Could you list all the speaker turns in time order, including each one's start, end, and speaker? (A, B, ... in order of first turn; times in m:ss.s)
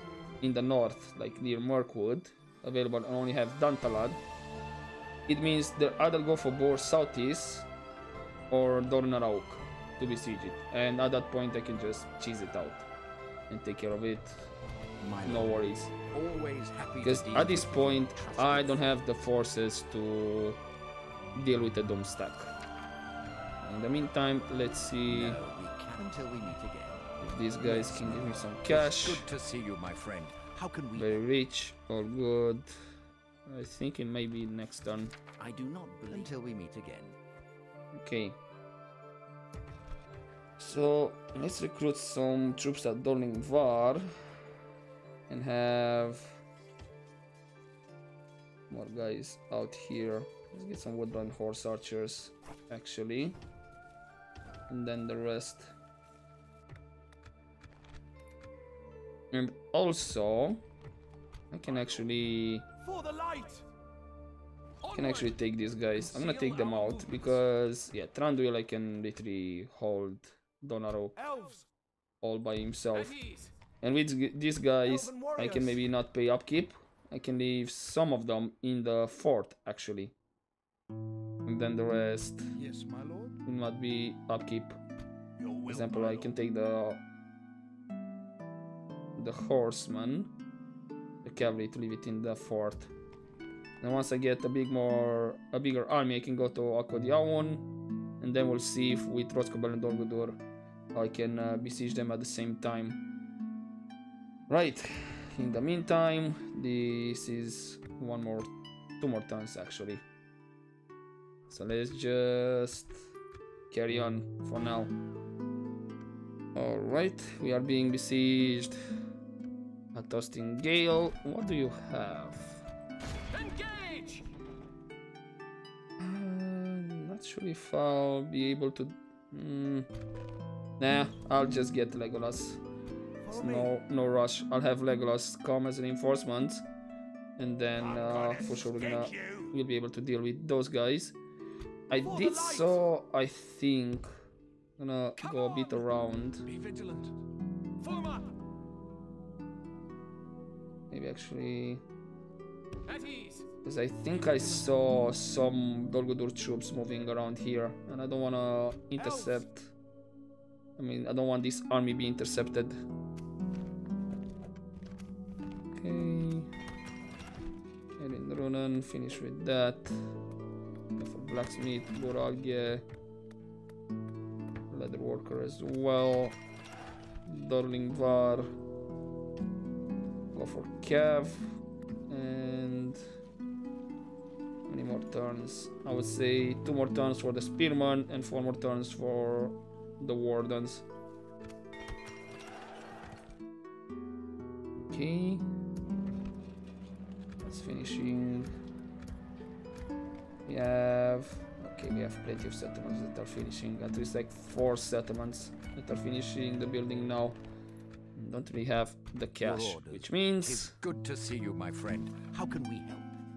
0:00.4-0:04.2 A
0:05.3-0:07.7 A
0:08.5-0:12.9 A
0:13.5-0:14.5 A
0:15.0-0:15.6 B
0:15.2-0:15.9 A
0:16.1-0:18.9 B
0:17.0-0:20.6 A
0:21.3-0:22.5 A
0:23.6-0:25.4 A
0:25.1-0:31.2 B
0:27.2-0:29.3 A
0:30.9-0:32.7 A
0:33.4-0:35.1 A
0:35.4-0:37.2 B
0:37.9-0:38.4 A
0:40.6-0:44.1 A
0:45.3-0:46.4 A
0:48.7-0:53.4 A
0:54.7-0:55.7 A
0:59.3-1:00.6 A
1:01.5-1:02.6 A
1:01.7-1:02.0 C
1:02.8-1:03.6 C
1:04.8-1:05.4 C
1:04.9-1:11.2 A
1:06.0-1:07.4 C
1:11.2-1:11.6 C
1:12.2-1:13.2 A
1:12.9-1:13.5 C
1:13.8-1:20.1 A
1:14.8-1:15.8 C
1:21.4-1:22.5 A
1:22.6-1:23.4 C
1:23.4-1:24.8 A
1:25.4-1:26.3 C
1:25.7-1:27.0 A
1:29.1-1:30.3 A
1:31.2-1:32.9 A
1:33.8-1:37.6 A
1:38.2-1:40.4 A
1:40.9-1:43.0 A
1:44.5-1:50.0 A
1:51.5-1:53.1 A
1:53.7-1:54.9 A
1:56.5-1:58.8 A
1:59.9-2:02.6 A
2:03.3-2:04.2 C
2:06.0-2:09.9 A
2:10.8-2:12.6 A
2:13.2-2:13.7 C
2:13.3-2:16.6 A
2:17.4-2:21.2 A
2:17.8-2:19.5 C
2:21.9-2:24.1 A
2:21.9-2:22.8 C
2:24.8-2:26.5 A
2:25.2-2:25.8 C
2:26.5-2:27.1 C
2:27.8-2:28.3 C
2:30.9-2:31.8 A
2:32.9-2:33.4 C
2:33.6-2:39.7 A
2:39.0-2:39.4 C
2:40.8-2:42.8 A
2:45.7-2:46.5 A
2:48.0-2:49.9 A
2:51.0-2:52.8 A
2:54.7-2:56.4 A
2:57.2-2:58.5 A
3:00.3-3:01.6 A
3:02.1-3:03.0 A
3:04.7-3:10.8 A
3:14.7-3:15.4 A
3:17.4-3:18.5 A
3:20.4-3:27.4 A
3:28.1-3:30.8 A
3:29.4-3:33.2 B